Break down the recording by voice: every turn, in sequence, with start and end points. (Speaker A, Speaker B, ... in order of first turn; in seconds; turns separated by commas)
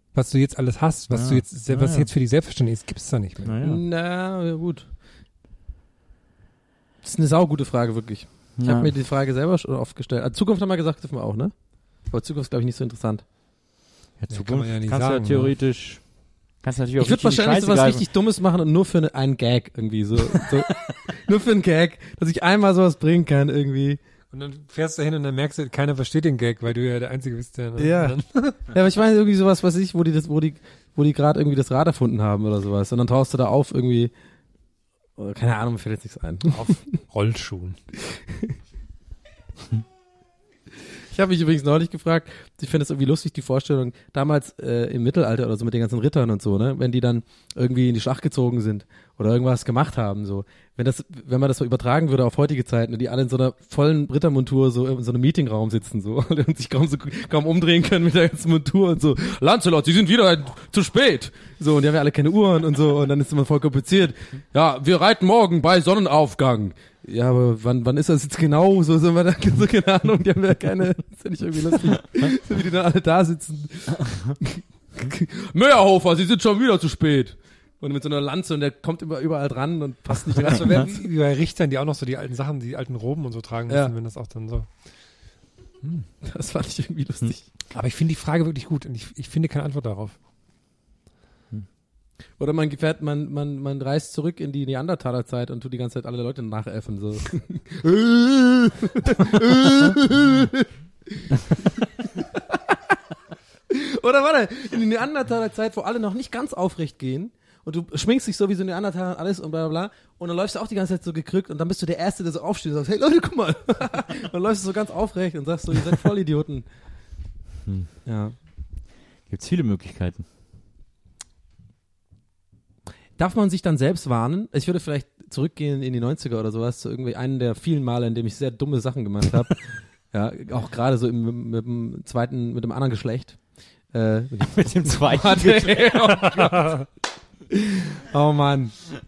Speaker A: 0.1-3.5, Speaker B: 1.1-2.1, Speaker B: 3.4-3.8, Speaker C: 3.6-4.9, Speaker C: 7.0-11.5, Speaker B: 8.6-8.9, Speaker C: 12.1-13.2, Speaker B: 14.2-16.0, Speaker A: 14.3-15.6, Speaker B: 16.6-18.1, Speaker C: 17.0-24.0, Speaker A: 24.3-28.5, Speaker C: 27.8-34.1, Speaker C: 35.2-36.8, Speaker A: 36.5-37.8, Speaker C: 41.1-81.0, Speaker A: 80.3-84.7, Speaker C: 83.7-83.9, Speaker C: 86.2-87.4, Speaker A: 87.7-90.2, Speaker C: 92.4-101.3, Speaker C: 102.0-102.6, Speaker C: 103.7-116.7, Speaker C: 118.1-118.3, Speaker B: 119.3-120.2, Speaker C: 123.2-133.4, Speaker C: 133.9-136.8, Speaker B: 134.4-136.3, Speaker A: 136.5-136.8, Speaker C: 137.5-138.7